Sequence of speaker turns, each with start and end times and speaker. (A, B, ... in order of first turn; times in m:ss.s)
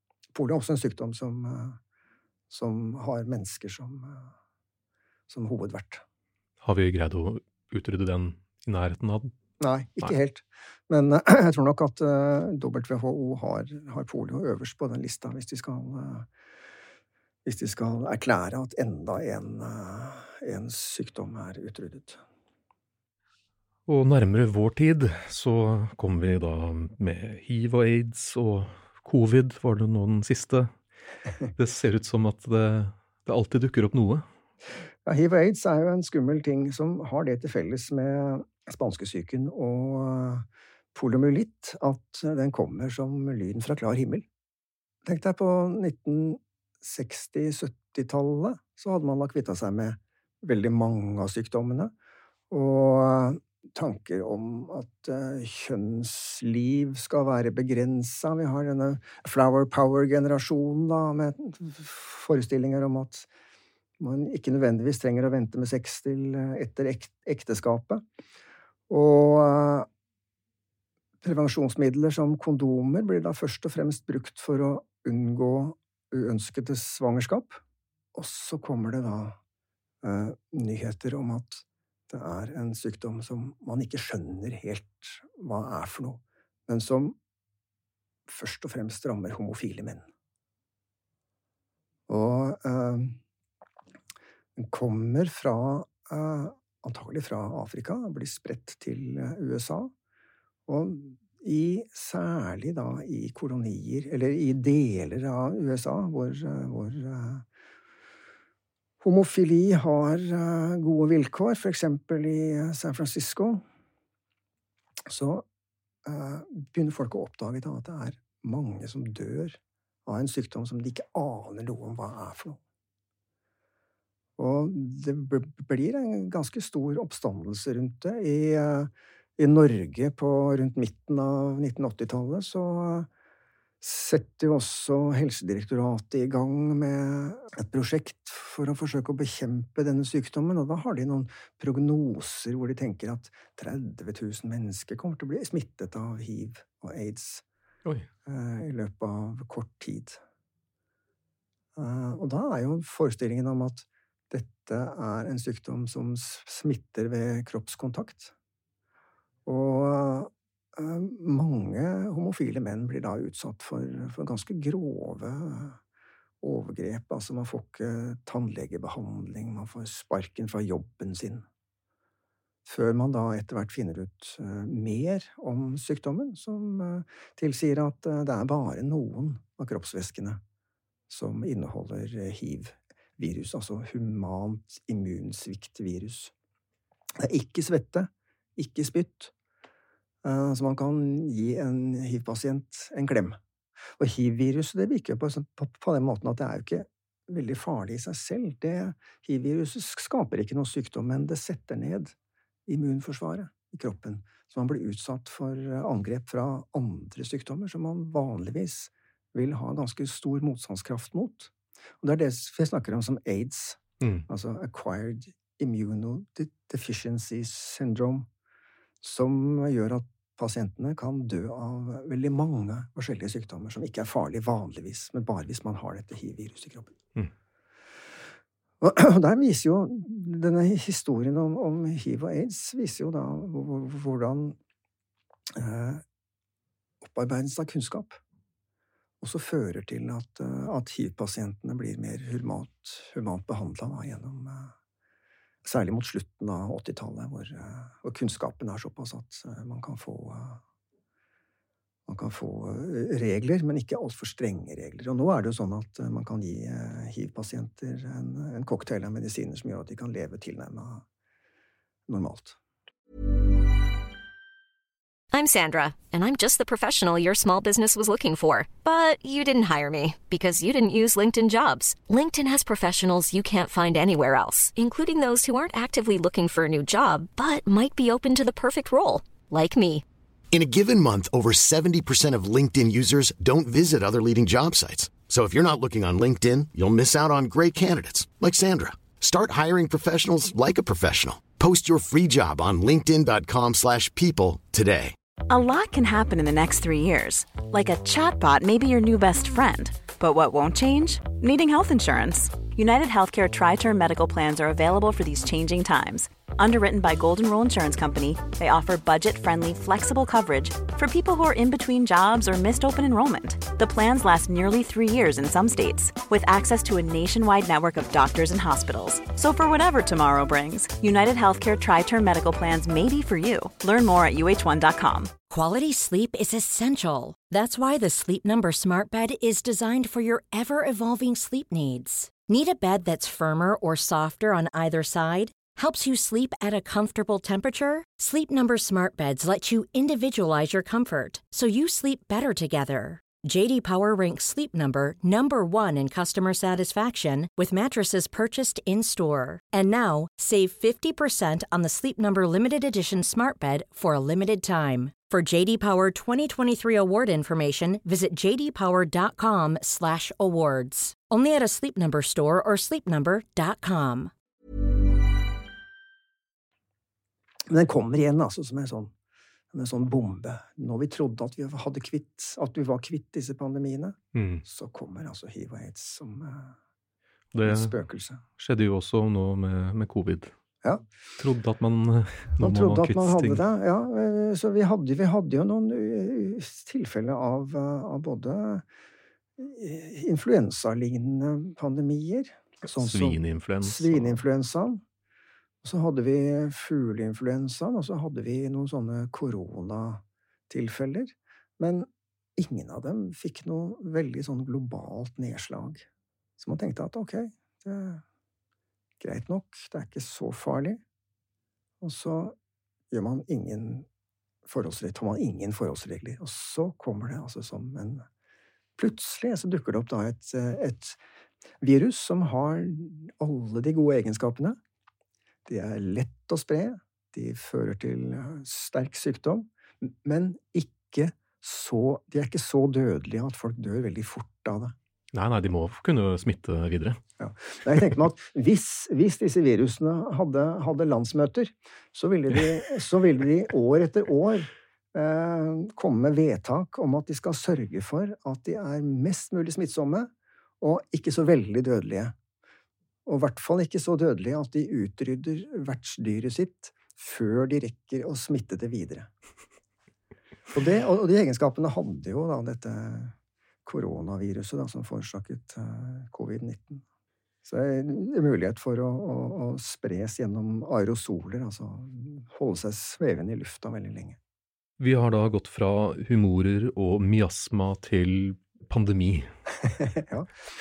0:00.3-0:01.8 A
0:02.5-0:04.3 A
0:05.3-0:06.0 A
0:06.6-0:09.3 B
0:09.6-0:16.3 A
0:17.4-0:22.2 A
0:23.9-0:30.8 B
0:31.6-0:34.2 B
0:35.0-0:44.2 A
0:45.0-0:51.9 A
0:52.5-1:03.3 A
1:04.0-1:08.0 A
1:08.9-1:09.9 A
1:11.2-1:17.6 A
1:18.1-1:19.4 A
1:20.0-1:27.2 A
1:28.3-1:30.1 A
1:32.1-1:33.2 A
1:34.6-1:39.9 A
1:40.7-1:47.4 A
1:49.0-1:53.6 A
1:55.0-1:55.4 A
1:56.0-2:02.6 A
2:04.4-2:13.1 A
2:13.8-2:27.4 A
2:28.2-2:30.2 A
2:31.8-2:38.3 A
2:39.4-2:45.8 A
2:46.4-2:51.4 A
2:52.6-3:00.4 A
3:01.1-3:06.3 A
3:07.2-3:09.3 A
3:10.2-3:13.4 A
3:14.0-3:22.1 A
3:22.6-3:38.3 A
3:34.0-3:34.2 B
3:39.0-3:47.0 A
3:48.8-3:54.6 A
3:55.5-3:56.0 A
3:57.0-3:58.2 A
3:59.2-4:04.7 A
4:05.6-4:10.6 A
4:12.1-4:21.0 A
4:22.1-4:22.6 A
4:25.3-4:40.0 C
4:40.5-4:55.1 D
4:55.5-5:25.4 E
5:25.5-6:04.3 F
6:07.7-6:09.1 A
6:09.7-6:16.8 A
6:14.3-6:14.6 B
6:17.5-6:17.9 B
6:17.6-6:18.4 A
6:18.6-6:20.5 B
6:21.4-6:23.6 B
6:22.6-6:28.8 A
6:29.6-6:35.0 A
6:32.9-6:34.4 B
6:35.8-6:46.0 A
6:46.6-6:48.2 A
6:49.2-6:51.0 A
6:52.0-6:52.5 A
6:53.1-6:54.1 A
6:54.6-6:58.2 A
6:59.0-7:01.2 A
7:01.8-7:04.8 A
7:05.6-7:15.0 A
7:15.3-7:17.2 B
7:17.4-7:32.3 A
7:33.2-7:39.3 A
7:40.7-7:47.0 A
7:47.6-7:54.4 A
7:55.0-7:59.5 B
8:00.0-8:00.5 A